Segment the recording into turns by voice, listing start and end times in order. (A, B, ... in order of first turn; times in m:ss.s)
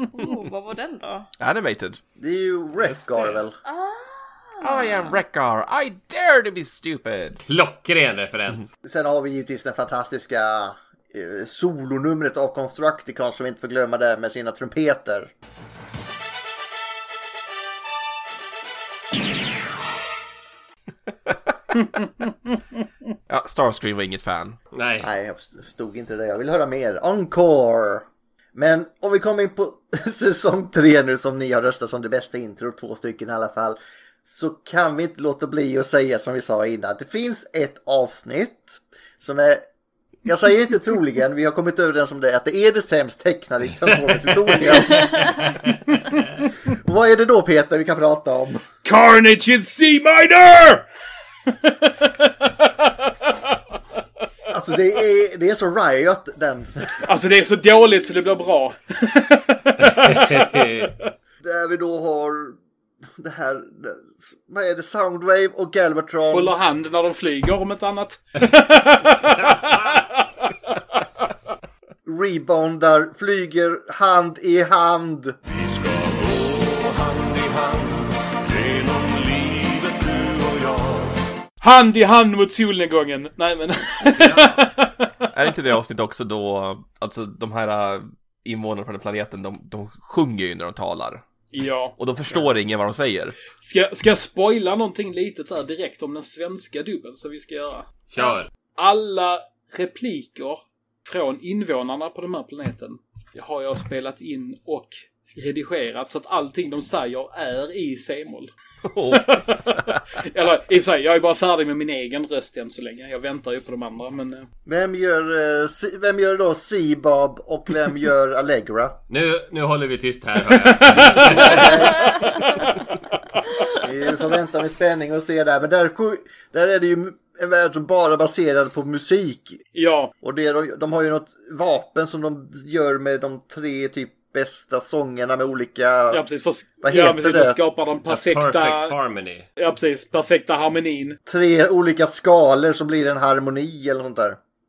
0:00.1-0:01.3 A
0:01.4-0:02.0 B
0:02.2-0:03.6 C
0:02.8-0:03.4 D
0:03.6-0:05.2 A
0:04.6-0:07.4 B
0:07.4-0:08.7 D
0:08.8-0:15.3 C
0:23.3-0:24.6 B
0:24.7-0:25.1 D
0:25.0-0:39.6 C
0:40.2-0:45.4 C
0:46.7-0:48.6 C
0:48.8-0:50.8 E
0:51.5-0:53.5 E
0:54.5-0:56.9 C
0:57.0-1:00.9 E
0:59.9-1:00.9 D
1:01.4-1:06.6 C
1:06.3-1:10.2 E
1:09.5-1:09.9 D
1:12.0-1:15.4 C
1:15.5-1:21.1 F
1:21.6-1:25.1 E
1:25.3-1:31.2 B
1:31.5-1:31.9 E
1:32.0-1:33.4 B
1:33.6-1:37.9 E
1:38.1-1:38.5 D
1:38.7-1:48.5 E
1:48.8-1:49.6 B
1:49.1-1:54.5 E
1:54.6-1:59.0 C
1:59.1-2:01.8 D
2:00.5-2:02.7 E
2:01.0-2:02.2 C
2:03.8-2:09.6 C
2:09.7-2:10.1 E
2:10.2-2:16.2 C
2:16.1-2:19.0 E
2:16.8-2:17.6 C
2:18.1-2:19.5 D
2:19.6-2:21.2 E
2:21.2-2:24.4 C